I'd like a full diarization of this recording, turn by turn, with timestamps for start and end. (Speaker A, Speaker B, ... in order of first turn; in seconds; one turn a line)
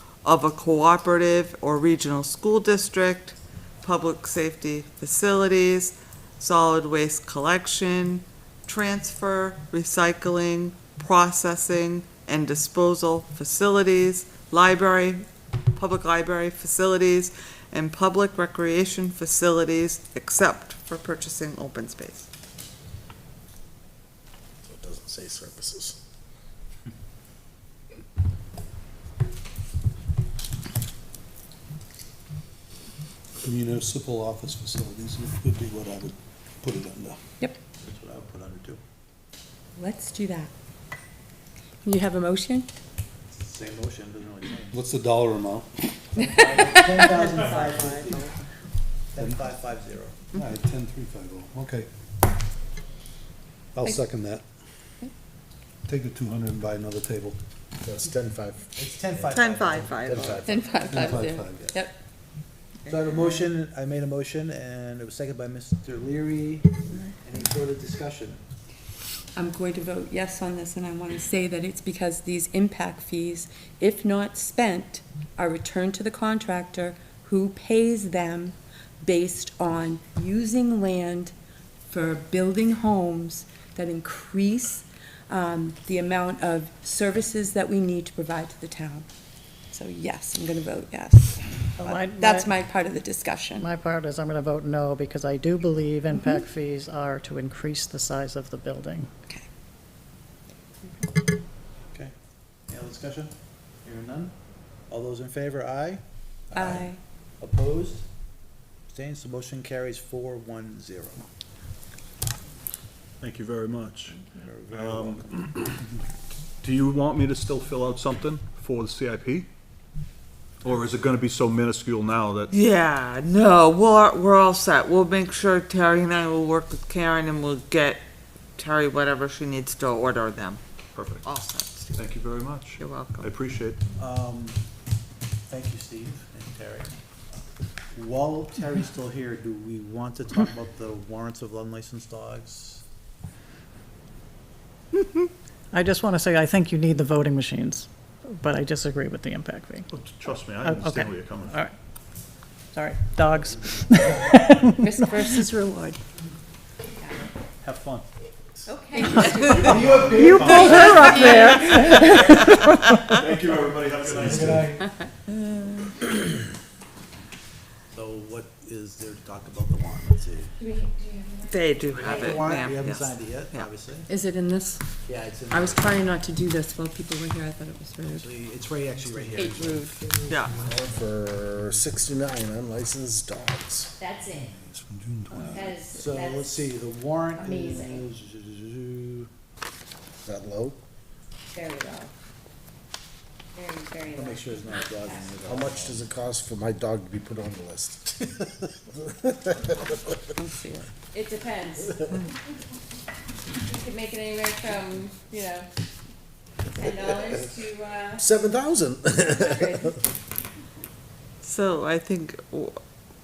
Speaker A: 0.2-22.3
Speaker B: 24.7-26.0
Speaker C: 33.4-37.2
Speaker D: 37.8-38.8
Speaker E: 39.8-40.5
Speaker E: 41.8-42.7
Speaker D: 43.3-44.8
Speaker C: 44.7-45.7
Speaker D: 46.1-48.3
Speaker A: 46.9-48.4
Speaker D: 49.1-50.2
Speaker C: 50.4-51.9
Speaker C: 53.8-54.4
Speaker C: 55.9-57.4
Speaker B: 57.8-59.4
Speaker D: 58.8-61.8
Speaker A: 59.3-60.3
Speaker B: 59.9-60.8
Speaker E: 60.4-61.9
Speaker C: 60.9-61.6
Speaker A: 62.9-63.2
Speaker D: 62.9-68.4
Speaker E: 69.4-81.3
Speaker E: 81.9-89.1
Speaker E: 89.7-93.7
Speaker F: 91.8-92.5
Speaker F: 93.6-99.1
Speaker D: 102.7-103.3
Speaker D: 103.8-104.3
Speaker D: 104.9-108.0
Speaker E: 106.5-107.0
Speaker D: 108.9-111.2
Speaker G: 113.2-114.2
Speaker D: 114.3-115.4
Speaker G: 114.8-115.8
Speaker G: 116.6-119.5
Speaker G: 120.6-122.5
Speaker A: 122.5-128.0
Speaker A: 128.6-130.6
Speaker G: 130.9-131.2
Speaker A: 131.2-132.0
Speaker G: 131.9-133.8
Speaker A: 132.8-133.3
Speaker D: 134.0-134.6
Speaker D: 135.5-137.4
Speaker D: 137.9-142.8
Speaker F: 145.7-149.9
Speaker G: 149.9-151.6
Speaker F: 150.6-151.8
Speaker F: 152.7-155.0
Speaker E: 154.8-156.0
Speaker D: 157.6-158.1
Speaker H: 158.7-159.6
Speaker E: 158.9-160.9
Speaker G: 159.5-160.2
Speaker D: 159.6-161.1
Speaker F: 160.1-163.2
Speaker G: 163.2-164.7
Speaker D: 164.0-164.8
Speaker D: 167.9-170.5
Speaker H: 170.6-172.4
Speaker A: 171.4-173.7
Speaker D: 172.0-174.1
Speaker E: 174.1-174.8
Speaker D: 175.0-176.0
Speaker E: 175.5-178.3
Speaker D: 178.1-180.4
Speaker E: 179.3-180.0
Speaker A: 180.3-180.6
Speaker B: 180.6-183.9
Speaker H: 184.0-184.6
Speaker C: 184.4-185.8
Speaker D: 185.3-189.3
Speaker H: 185.4-186.6
Speaker H: 187.4-188.1
Speaker B: 190.2-190.8
Speaker H: 191.5-192.1
Speaker H: 193.5-195.4
Speaker D: 194.0-196.0
Speaker B: 195.4-200.0
Speaker E: 200.4-200.9
Speaker H: 201.1-202.0
Speaker H: 203.6-205.7
Speaker H: 206.7-208.3
Speaker B: 208.2-209.8
Speaker H: 209.2-210.0
Speaker A: 211.4-212.8